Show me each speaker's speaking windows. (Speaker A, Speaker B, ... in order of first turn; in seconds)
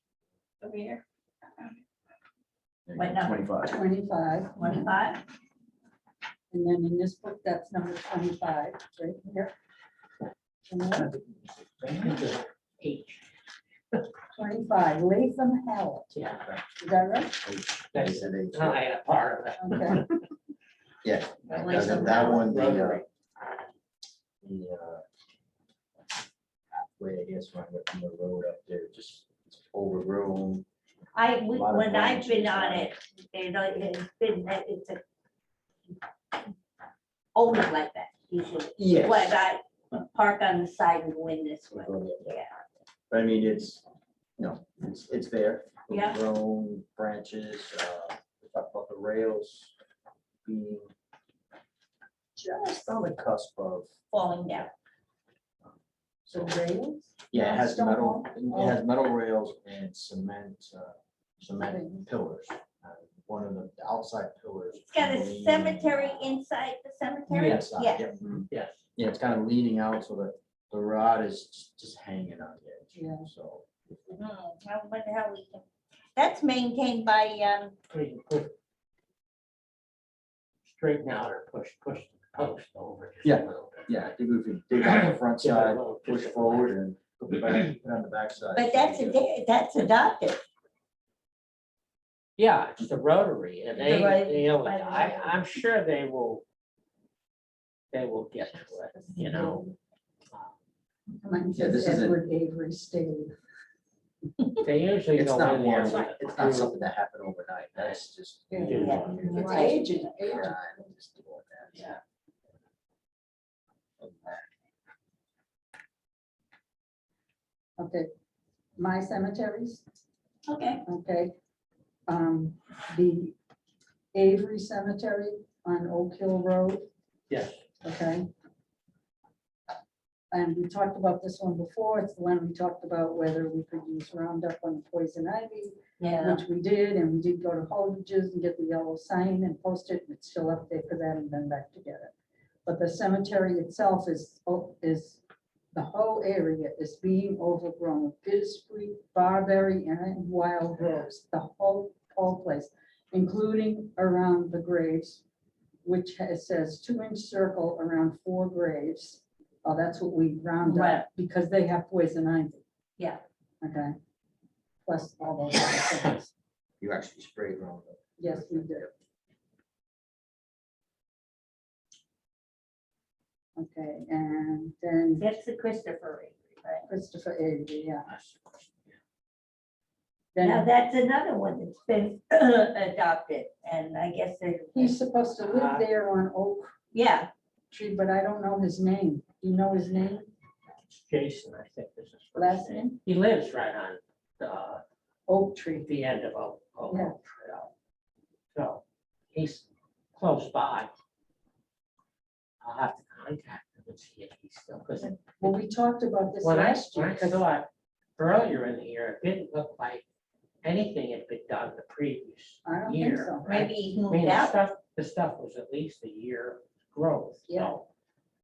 Speaker A: 0.6-1.0, 3.0-3.5, 4.5-5.2, 21.5-22.7, 31.1-35.0, 37.3-42.6, 45.9-46.2, 54.1-54.7, 64.8-68.1, 74.1-75.6, 76.2-77.7, 88.5-90.4, 93.7-95.4, 99.2-99.6, 108.7-110.1, 120.5-120.8, 136.0-136.4, 160.6-161.1, 175.2-176.8, 180.4-184.9, 186.9-187.3, 213.4-214.6
Speaker B: 2.9-3.7, 17.4-18.8, 21.0-23.0, 24.4-25.0, 26.7-30.6, 31.4-32.9, 38.8-39.4, 41.7-42.2, 43.1-43.8, 44.4-49.7, 50.4-50.9, 52.4-53.9, 57.3-66.4, 67.3-68.4, 69.0-74.2, 83.2-89.3, 101.5-102.2, 105.1-111.9, 114.0-114.4, 166.8-168.9
Speaker C: 3.6-4.8, 6.5-9.5, 10.7-11.1, 14.3-16.1, 16.8-17.4, 19.6-20.0, 56.3-58.8, 61.5-62.1, 72.9-73.3, 99.3-99.6, 101.2-103.3, 108.5-110.5, 117.8-118.1, 118.8-119.8, 120.8-121.3, 122.1-123.3, 124.1-126.9, 127.8-128.3, 130.3-142.1, 142.7-145.2, 145.7-155.2, 155.8-162.6, 163.6-163.9, 164.8-166.3, 168.2-168.9, 173.6-175.2, 176.9-178.1, 180.3-180.7, 184.7-186.7, 187.7-190.3, 192.3-193.0, 195.3-195.9, 196.9-197.2, 205.4-207.4, 212.6-213.5, 217.5-217.8
Speaker D: 11.9-13.2, 16.1-16.4, 17.9-20.2, 21.5-23.0, 67.3-67.7, 68.5-68.8, 77.9-78.5, 80.7-84.1, 84.8-86.7, 92.4-96.4, 97.9-99.6, 104.6-106.7, 107.8-108.0, 108.6-109.6, 127.3-127.6, 178.1-178.7, 185.4-185.8, 190.9-194.8, 195.8-197.7, 198.5-198.8, 199.3-200.9, 202.6-205.6, 206.4-210.0, 210.6-217.9